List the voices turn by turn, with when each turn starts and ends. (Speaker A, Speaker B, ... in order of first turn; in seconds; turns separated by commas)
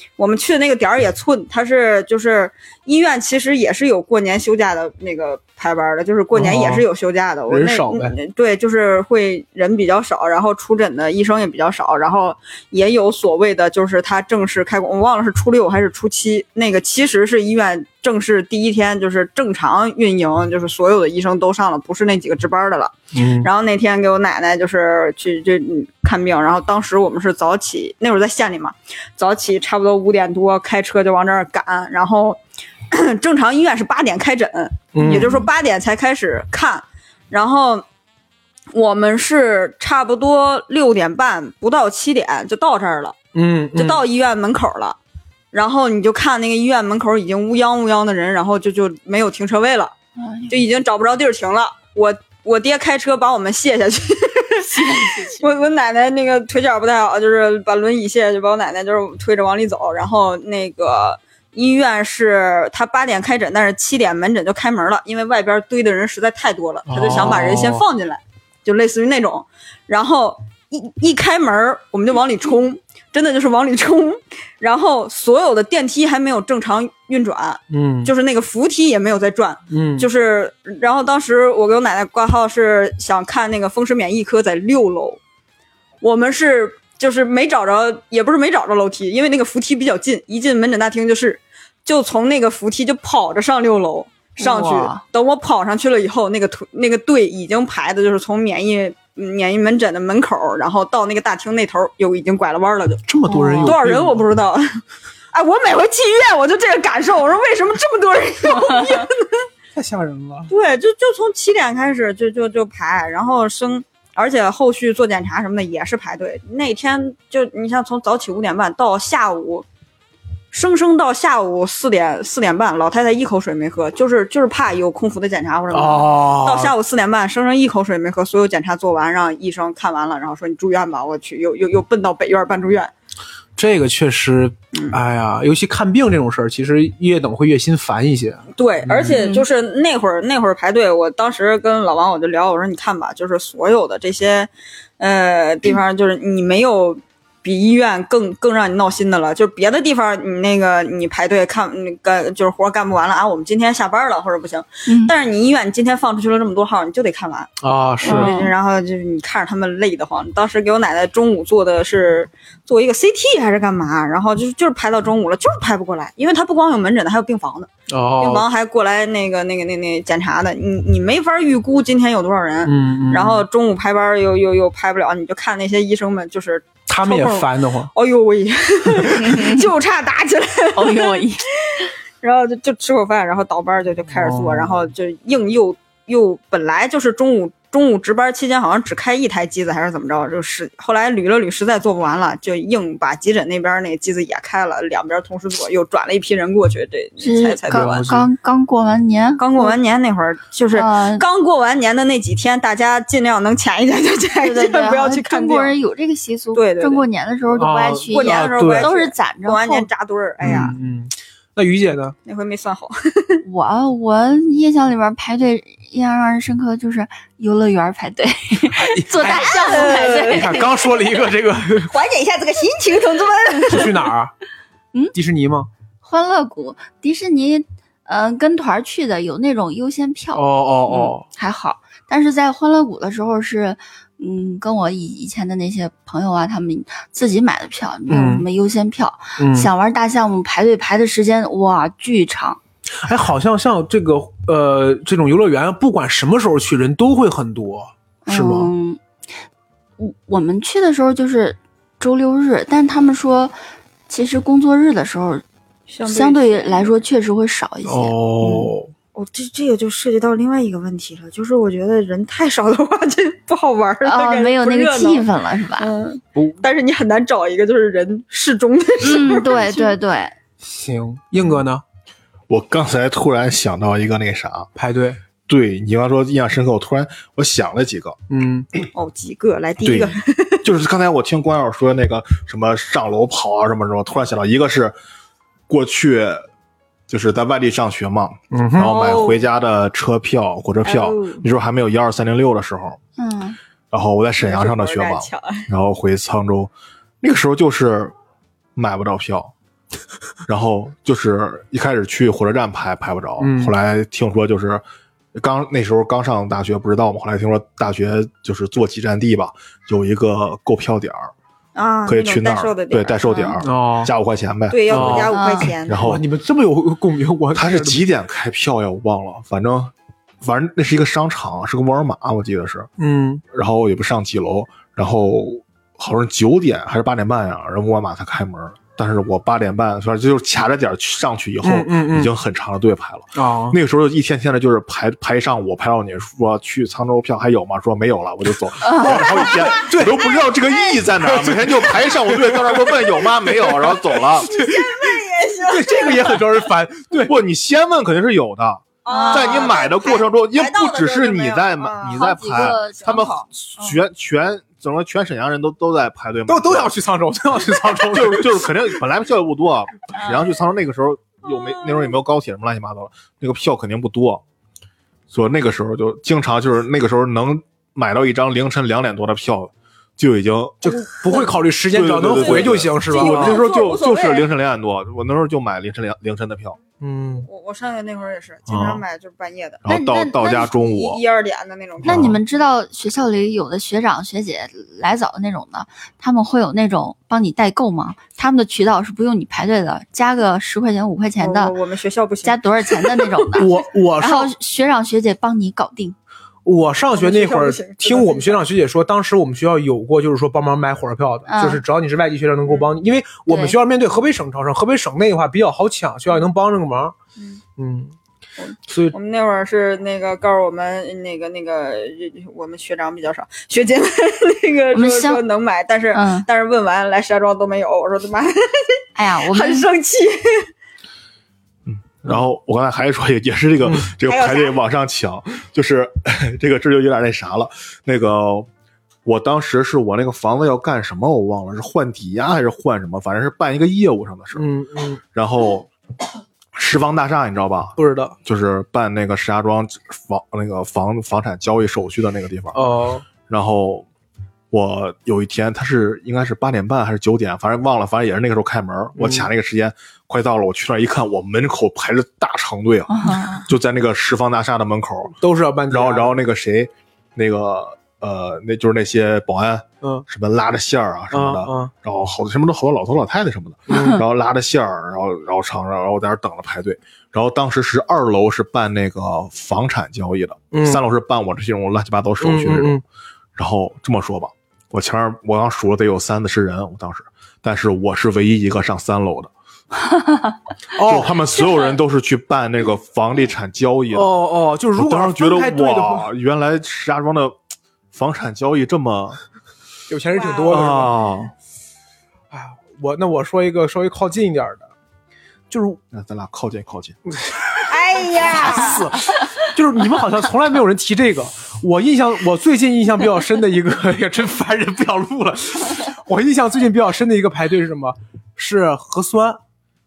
Speaker A: 0.2-37.9, Speaker B: 6.3-6.8, Speaker B: 7.5-8.2, Speaker B: 23.1-23.5, Speaker B: 34.9-35.5, Speaker A: 38.7-43.1, Speaker B: 43.3-44.0, Speaker A: 43.7-45.0, Speaker A: 45.5-49.9, Speaker C: 50.1-50.6, Speaker A: 50.5-85.2, Speaker C: 54.9-55.5, Speaker B: 66.9-67.8, Speaker B: 77.7-78.1, Speaker B: 79.7-80.1, Speaker A: 86.0-103.0, Speaker C: 94.4-95.0, Speaker B: 103.0-104.2, Speaker C: 103.3-103.8, Speaker A: 103.6-104.8, Speaker A: 105.3-109.5, Speaker B: 109.7-110.5, Speaker A: 110.5-119.7, Speaker A: 120.5-132.9, Speaker B: 125.7-126.7, Speaker B: 133.6-139.2, Speaker A: 138.6-157.5, Speaker C: 139.2-139.4, Speaker C: 154.9-155.1, Speaker B: 157.6-158.3, Speaker A: 158.0-198.1, Speaker C: 158.0-158.5, Speaker B: 167.9-168.4, Speaker B: 172.6-173.4, Speaker B: 176.9-177.9, Speaker C: 179.1-179.7, Speaker C: 180.7-181.4, Speaker B: 184.1-184.9, Speaker C: 197.2-199.8, Speaker B: 197.7-198.3, Speaker A: 199.4-205.8, Speaker C: 200.7-201.2, Speaker C: 204.4-209.9, Speaker A: 206.5-207.1, Speaker B: 207.6-208.9, Speaker A: 208.0-210.8, Speaker B: 210.4-212.1, Speaker A: 212.2-213.4, Speaker C: 213.4-220.8, Speaker B: 218.8-221.9, Speaker A: 219.2-220.7, Speaker A: 221.9-224.1, Speaker B: 223.7-224.3, Speaker B: 225.1-225.7, Speaker C: 226.0-242.6, Speaker B: 230.3-231.2, Speaker B: 238.1-238.5, Speaker B: 239.4-239.7, Speaker B: 243.0-248.7, Speaker C: 248.2-249.0, Speaker C: 250.0-253.5, Speaker C: 254.1-255.4, Speaker A: 255.9-256.9, Speaker C: 256.0-258.7, Speaker B: 257.9-258.9, Speaker A: 259.1-265.3, Speaker C: 264.0-265.9, Speaker A: 265.8-269.9, Speaker C: 269.0-270.3, Speaker B: 270.6-271.8, Speaker D: 272.5-274.7, Speaker B: 274.8-275.2, Speaker D: 275.5-278.1, Speaker B: 278.3-278.7, Speaker A: 278.9-280.6, Speaker D: 279.8-284.9, Speaker D: 285.7-286.4, Speaker D: 287.1-293.0, Speaker B: 288.5-288.9, Speaker A: 288.8-289.5, Speaker A: 290.8-291.4, Speaker C: 293.2-293.6, Speaker D: 293.9-298.1, Speaker A: 294.4-295.7, Speaker D: 298.8-299.5, Speaker D: 300.5-304.8, Speaker B: 303.4-303.7, Speaker D: 305.3-311.3, Speaker A: 311.7-313.6, Speaker D: 312.1-315.3, Speaker C: 313.2-313.5, Speaker B: 313.6-314.1, Speaker A: 314.7-316.1, Speaker B: 314.9-315.3, Speaker C: 315.3-315.7, Speaker D: 315.9-316.2, Speaker B: 315.9-318.0, Speaker D: 317.5-322.9, Speaker B: 323.0-323.4, Speaker D: 323.5-344.5, Speaker B: 331.6-332.3, Speaker B: 333.3-333.8, Speaker C: 338.8-339.3, Speaker B: 338.9-340.4, Speaker B: 341.1-347.4, Speaker A: 344.4-346.4, Speaker D: 347.2-356.9, Speaker A: 349.0-353.4, Speaker C: 349.1-349.8, Speaker C: 352.1-353.9, Speaker B: 356.5-358.8, Speaker D: 358.1-364.4, Speaker C: 360.1-360.5, Speaker A: 361.5-362.0, Speaker D: 365.3-371.0, Speaker B: 370.8-373.6, Speaker A: 371.2-371.6, Speaker D: 371.9-376.8, Speaker A: 372.3-374.5, Speaker B: 377.0-377.5, Speaker A: 377.5-379.8, Speaker D: 378.7-379.0, Speaker D: 379.8-381.2, Speaker C: 379.9-380.7, Speaker A: 380.7-382.4, Speaker D: 382.0-382.4, Speaker C: 382.0-391.7, Speaker A: 391.4-393.5, Speaker C: 392.4-396.1, Speaker B: 393.6-394.5, Speaker B: 396.6-407.1, Speaker A: 397.1-398.6, Speaker C: 401.5-401.8, Speaker C: 403.5-403.8, Speaker B: 407.8-408.1, Speaker A: 408.6-420.7, Speaker B: 408.9-409.1, Speaker C: 414.9-415.4, Speaker C: 416.1-416.5, Speaker C: 419.1-419.9, Speaker D: 421.9-428.7, Speaker B: 423.8-424.1, Speaker A: 424.2-424.8, Speaker D: 429.2-434.7, Speaker B: 434.5-435.2, Speaker D: 435.3-435.9, Speaker D: 436.7-442.8, Speaker B: 438.0-438.4, Speaker B: 442.7-443.2, Speaker D: 443.5-444.1, Speaker D: 444.7-455.4, Speaker B: 449.2-449.5, Speaker C: 453.1-453.6, Speaker B: 455.4-456.4, Speaker D: 455.9-473.0, Speaker B: 461.3-461.9, Speaker B: 463.9-464.2, Speaker B: 470.7-471.0, Speaker B: 472.4-473.0, Speaker D: 473.6-479.5, Speaker C: 480.1-480.5, Speaker B: 480.9-481.4, Speaker D: 481.0-484.3, Speaker B: 484.1-486.3, Speaker D: 484.9-487.6, Speaker D: 488.1-489.4, Speaker B: 490.1-491.1, Speaker A: 490.3-490.8, Speaker D: 490.7-491.5, Speaker B: 492.5-494.9, Speaker B: 495.7-496.0, Speaker D: 496.1-497.1, Speaker B: 497.3-509.6, Speaker A: 497.8-499.1